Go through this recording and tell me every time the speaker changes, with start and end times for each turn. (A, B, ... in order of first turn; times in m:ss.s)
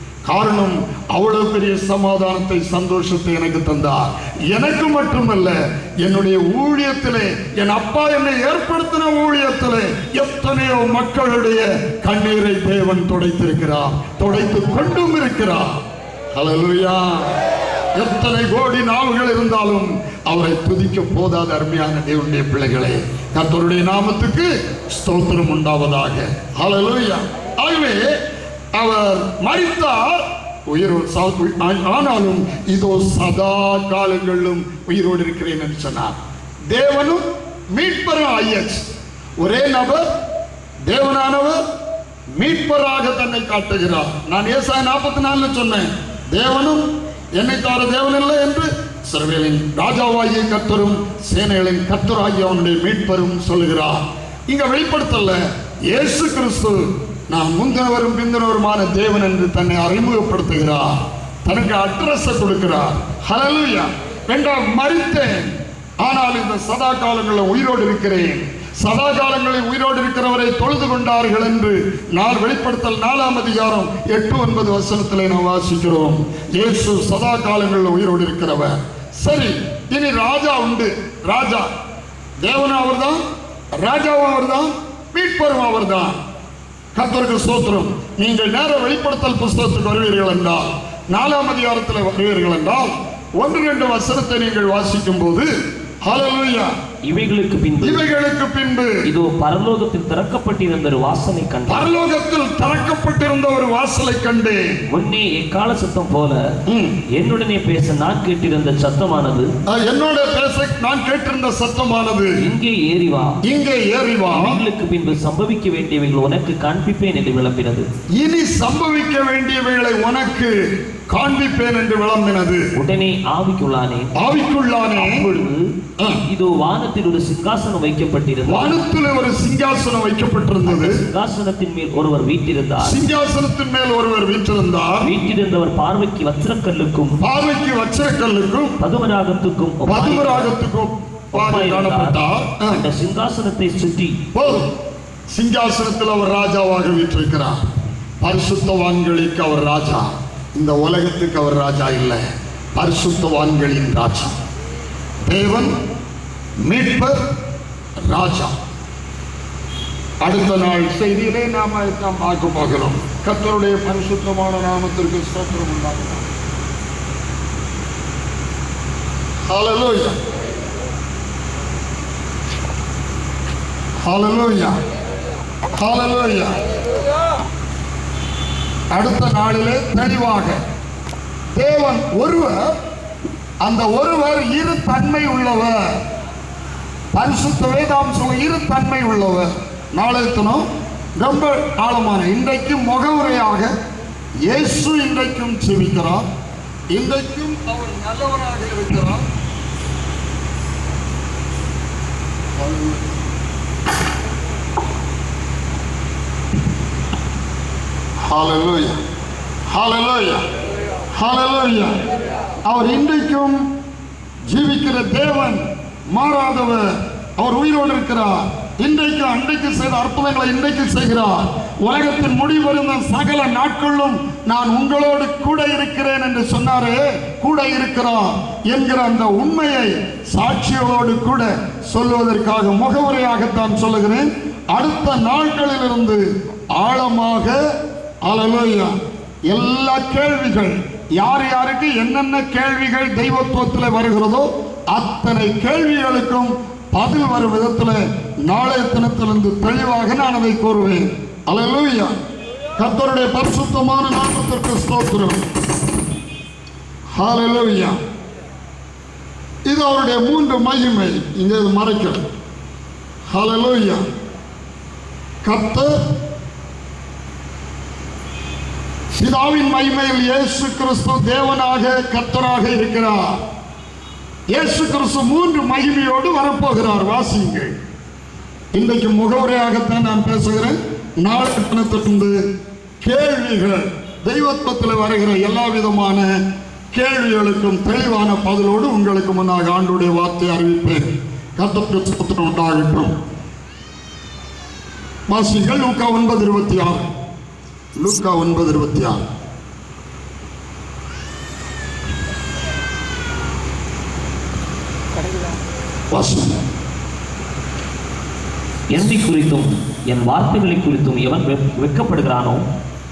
0:00.3-0:15.8 A
0:16.3-0:17.4 A
0:18.0-0:28.2 A
0:28.8-0:36.2 A
0:36.7-0:38.9 A
0:39.4-0:40.0 A
0:40.9-0:41.6 A
0:42.4-0:46.9 A
0:47.4-1:21.7 A
1:22.4-1:23.2 A
1:23.8-1:26.2 A
1:27.0-1:35.5 A
1:36.0-1:36.7 A
1:37.1-1:38.1 B
1:37.8-1:39.0 A
1:39.1-1:41.9 B
1:41.7-1:44.6 A
1:44.9-1:46.4 B
1:46.7-1:47.0 A
1:47.1-1:49.5 B
1:49.7-1:52.4 A
1:52.4-1:53.4 B
1:53.5-1:54.6 A
1:54.3-1:57.9 B
1:58.2-2:00.5 A
2:01.1-2:02.7 A
2:02.8-2:04.1 B
2:04.2-2:05.3 A
2:05.0-2:05.7 B
2:06.2-2:08.8 B
2:08.5-2:11.0 A
2:10.6-2:13.0 B
2:12.8-2:15.1 A
2:15.0-2:17.2 B
2:17.2-2:18.8 A
2:18.8-2:20.6 B
2:19.9-2:22.8 A
2:21.3-2:24.3 B
2:24.3-2:24.7 A
2:25.3-2:27.6 A
2:28.2-2:32.2 A
2:32.8-2:34.4 A
2:35.3-2:35.7 A
2:36.7-2:37.2 A
2:38.1-2:38.6 A
2:40.2-2:46.3 A
2:49.5-2:50.2 A
2:54.0-2:54.8 A
2:55.8-2:56.6 A
2:58.9-3:00.6 A
3:01.6-3:02.8 A
3:03.6-3:06.0 A
3:07.1-3:10.6 A
3:11.2-3:13.7 A
3:14.4-3:16.3 A
3:16.9-3:19.3 A
3:22.6-3:23.0 A
3:28.3-3:29.0 A
3:29.7-3:30.5 A
3:31.1-3:31.9 A
3:32.7-3:33.6 A
3:34.5-3:56.2 A
3:56.8-3:57.6 A
3:58.3-3:58.9 A
3:59.5-4:12.1 A
4:12.8-4:15.4 A
4:17.2-4:18.0 A
4:19.7-4:22.2 A
4:23.3-4:24.0 A
4:25.4-4:26.0 A
4:29.1-4:33.4 A
4:34.5-4:37.7 A
4:38.7-4:42.4 A
4:43.0-4:46.3 A
4:46.9-4:53.1 A
4:55.3-4:57.1 A
4:58.0-4:59.2 A
5:06.1-5:06.6 A
5:08.9-5:12.7 B